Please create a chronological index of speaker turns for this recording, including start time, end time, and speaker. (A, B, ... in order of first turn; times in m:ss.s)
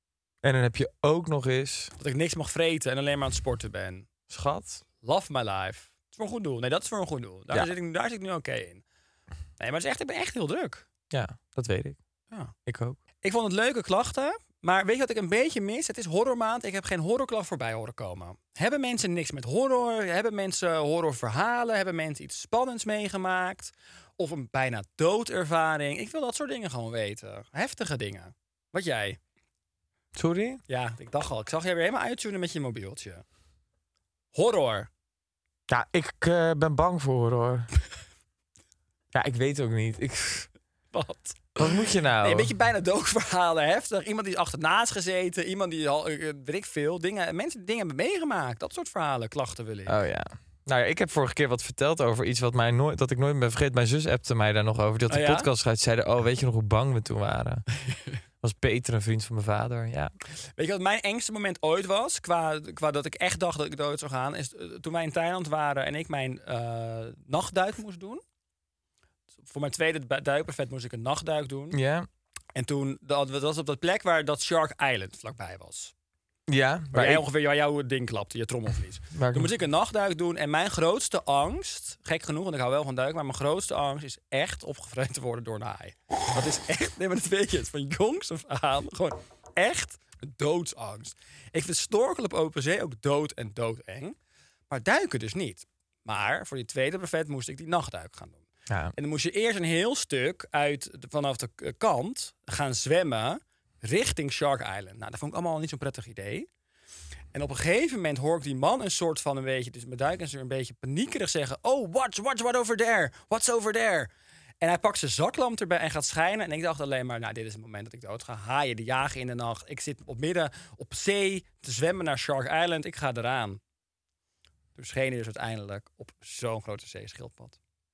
0:00.4-0:01.9 A
0:02.0-0:04.1 B
0:04.3-0:04.8 A
0:05.0-0:08.8 B
0:09.6-0:10.8 B
0:11.1-0:12.0 A
0:12.6-0:13.0 A
0:13.2-0:29.2 B
0:30.2-0:30.6 A
0:30.7-0:33.2 B
0:34.3-0:34.9 B
0:35.7-0:37.7 A
0:39.1-0:40.5 A
0:40.9-0:50.0 B
0:41.6-0:42.5 A
0:49.9-0:57.7 A
0:55.1-0:55.5 B
0:58.4-1:00.1 A
1:00.6-1:08.2 B
1:09.4-1:11.8 B
1:11.7-1:12.1 A
1:12.5-1:15.9 B
1:16.5-1:17.2 A
1:16.9-1:34.2 B
1:19.1-1:19.5 A
1:34.7-1:38.4 B
1:38.7-1:38.9 A
1:39.0-1:46.5 B
1:47.3-1:54.1 B
1:54.6-2:03.6 B
2:04.8-2:07.6 B